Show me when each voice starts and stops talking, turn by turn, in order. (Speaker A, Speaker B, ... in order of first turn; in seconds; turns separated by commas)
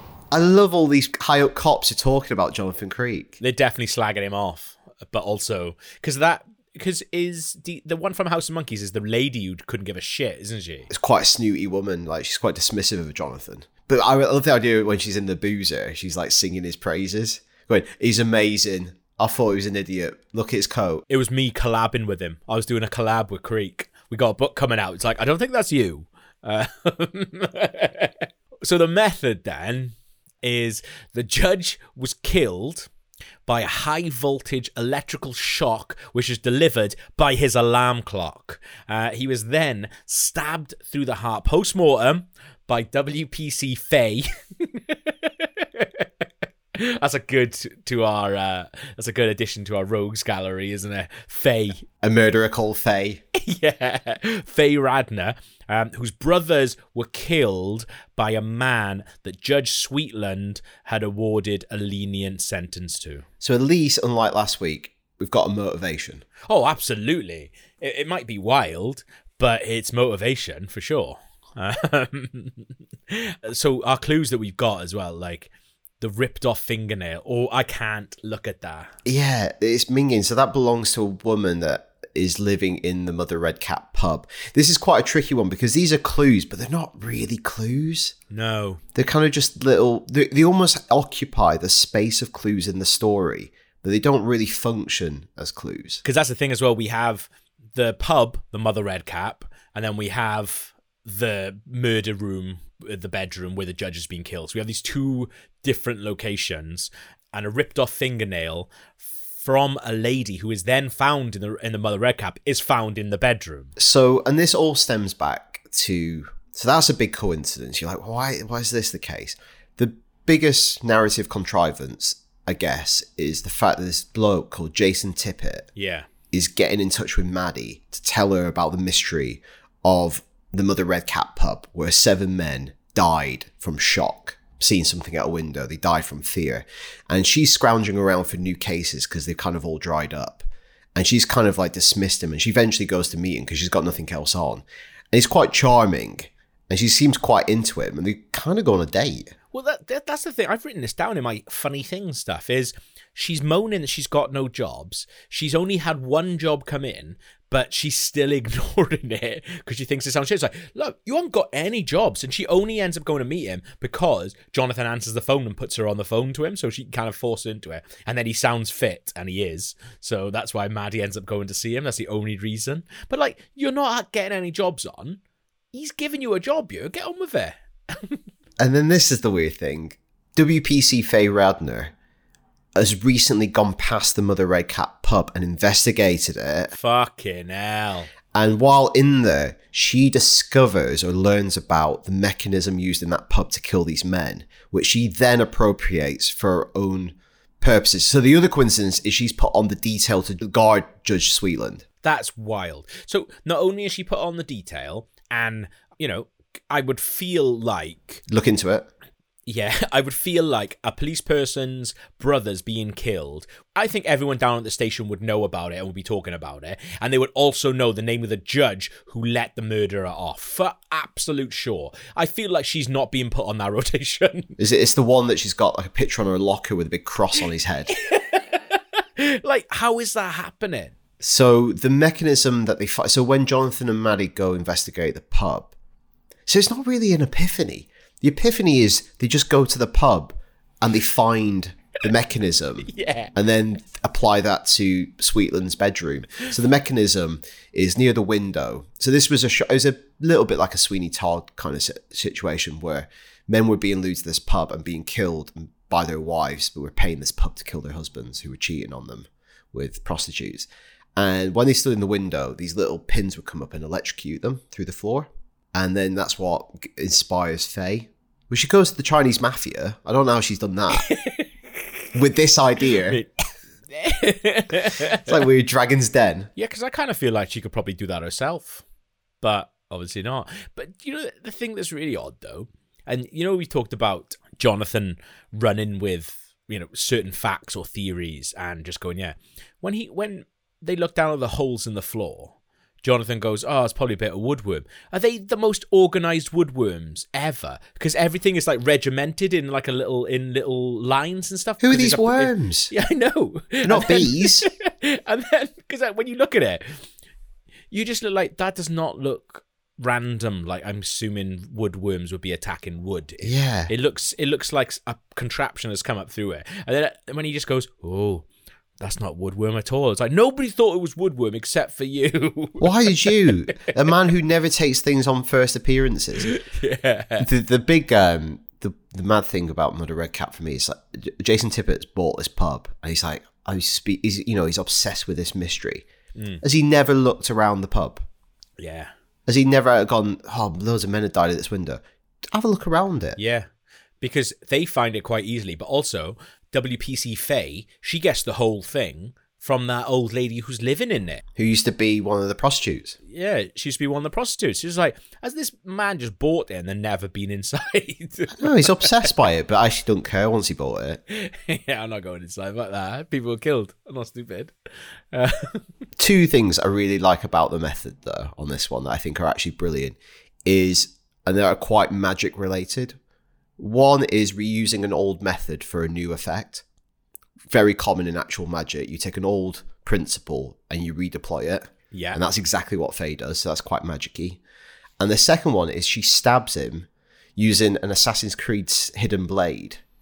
Speaker A: 0.3-3.4, Speaker B: 3.4-10.9, Speaker A: 10.9-21.0, Speaker B: 21.1-32.9, Speaker B: 33.5-46.1, Speaker B: 46.7-51.9, Speaker A: 52.0-53.2, Speaker B: 53.3-63.2, Speaker A: 63.4-66.2, Speaker B: 66.5-78.9, Speaker A: 79.0-88.1, Speaker B: 88.3-88.8, Speaker A: 88.9-96.0, Speaker B: 96.0-113.7, Speaker A: 113.8-125.7, Speaker B: 125.8-126.1, Speaker A: 126.3-149.3, Speaker B: 149.5-175.2, Speaker B: 175.7-178.2, Speaker A: 178.6-181.9, Speaker A: 182.7-186.7, Speaker B: 186.7-188.1, Speaker A: 188.3-201.8, Speaker B: 202.0-208.2, Speaker A: 208.3-208.9, Speaker B: 209.4-224.5, Speaker A: 224.6-227.9, Speaker B: 227.9-230.9, Speaker A: 231.2-235.7, Speaker A: 236.5-271.1, Speaker B: 242.9-243.3, Speaker B: 271.0-272.1, Speaker A: 272.1-273.2, Speaker B: 273.0-273.3, Speaker B: 273.9-275.2, Speaker A: 275.1-276.5, Speaker B: 276.6-278.8, Speaker B: 279.4-307.1, Speaker A: 301.8-302.9, Speaker A: 303.8-304.7, Speaker B: 307.9-318.4, Speaker A: 313.4-313.9, Speaker B: 319.0-323.6, Speaker A: 322.8-326.5, Speaker B: 326.4-327.4, Speaker A: 327.4-336.1, Speaker B: 336.4-336.6, Speaker A: 336.6-338.2, Speaker B: 338.8-339.1, Speaker A: 339.5-343.4, Speaker B: 343.4-343.7, Speaker B: 344.2-351.4, Speaker A: 351.6-353.1, Speaker B: 353.3-359.1, Speaker A: 358.6-361.2, Speaker B: 361.3-364.7, Speaker B: 365.3-365.9, Speaker A: 366.2-373.2, Speaker A: 373.8-376.8, Speaker A: 377.7-384.6, Speaker B: 382.1-382.4, Speaker A: 385.2-390.0